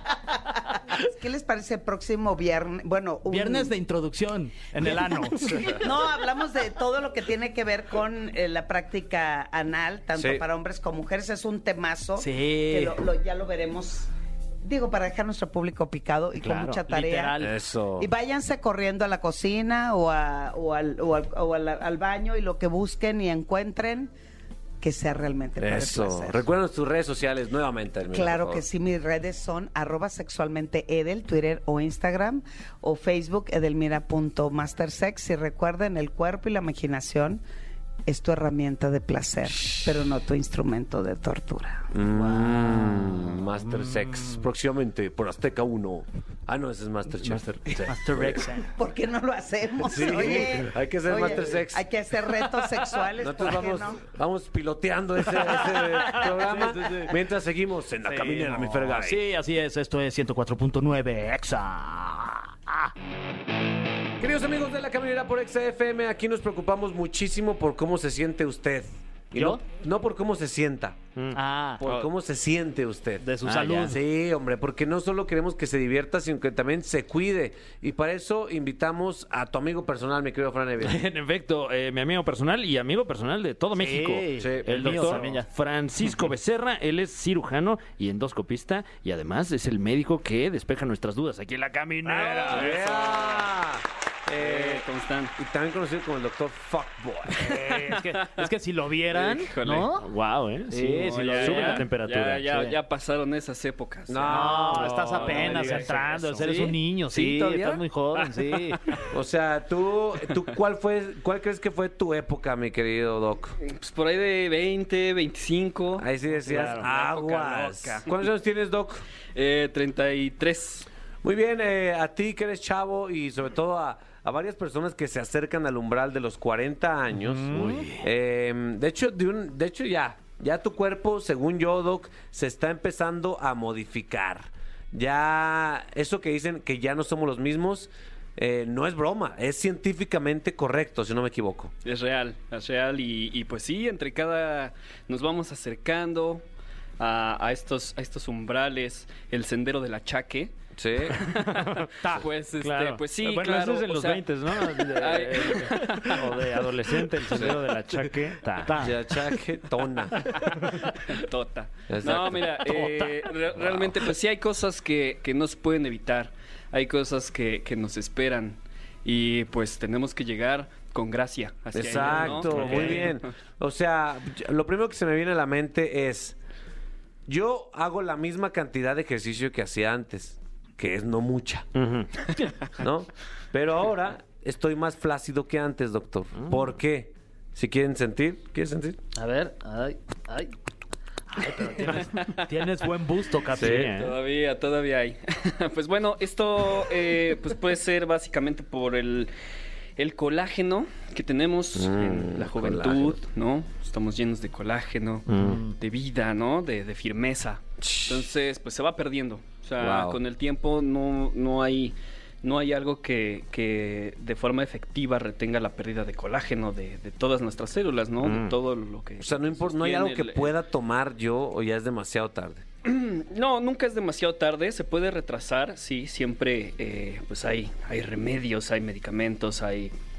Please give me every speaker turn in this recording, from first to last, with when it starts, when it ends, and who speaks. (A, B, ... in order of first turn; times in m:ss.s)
0:00.9-0:03.8 A
0:03.3-0:05.8 B
0:05.6-0:14.1 A
0:10.2-0:10.4 C
0:12.2-0:13.1 B
0:14.6-0:17.4 A
0:16.4-0:17.6 B
0:17.4-0:18.1 C
0:18.0-0:24.1 A
0:24.8-0:26.4 A
0:25.6-0:28.6 C
0:28.1-0:37.4 A
0:38.1-0:41.9 A
0:41.9-0:47.4 C
0:42.1-0:44.4 B
0:47.2-0:48.0 D
0:47.8-0:48.7 B
0:48.1-0:48.4 C
0:48.7-0:54.0 A
0:49.8-0:51.8 C
0:53.2-0:59.2 C
0:55.4-0:57.2 B
0:58.0-1:02.9 B
1:04.2-1:11.0 C
1:09.4-1:09.6 B
1:11.2-1:12.1 D
1:11.3-1:11.8 B
1:11.8-1:21.0 C
1:13.2-1:14.0 B
1:20.8-1:33.4 D
1:23.8-1:25.5 B
1:24.4-1:25.3 C
1:32.0-1:34.9 C
1:32.5-1:33.0 E
1:34.4-1:35.3 E
1:35.4-1:37.6 C
1:37.4-1:40.1 B
1:37.5-1:38.5 E
1:39.1-1:40.0 E
1:40.0-1:42.8 D
1:40.7-1:41.9 B
1:40.8-1:49.1 E
1:44.1-1:45.8 C
1:44.2-1:48.8 B
1:44.8-1:46.5 D
1:49.1-1:53.6 C
1:50.3-1:50.6 E
1:53.6-1:58.3 E
1:56.0-1:59.0 C
1:56.5-1:56.9 D
1:56.5-1:56.8 B
1:59.4-2:00.9 E
2:01.2-2:21.7 C
2:07.2-2:08.0 B
2:07.5-2:07.8 D
2:21.8-2:26.4 E
2:27.0-2:36.3 E
2:30.8-2:31.2 C
2:31.2-2:39.2 D
2:37.2-2:37.6 C
2:38.7-2:39.0 B
2:38.8-2:40.2 C
2:40.4-2:53.3 E
2:40.4-2:40.8 D
2:41.9-2:42.6 C
2:42.6-2:43.2 B
2:43.6-2:43.9 C
2:51.7-2:56.4 C
2:52.0-2:52.8 B
2:57.3-3:01.7 C
3:01.8-3:02.4 D
3:02.8-3:09.0 C
3:09.2-3:10.5 B
3:11.3-3:14.1 B
3:11.8-3:12.4 E
3:13.6-3:14.0 C
3:13.8-3:19.3 E
3:20.0-3:40.5 E
3:21.8-3:23.2 C
3:25.3-3:25.6 D
3:25.4-3:25.7 B
3:27.8-3:28.2 C
3:29.8-3:30.2 C
3:38.2-3:38.5 D
3:39.2-3:42.6 C
3:42.8-3:49.9 E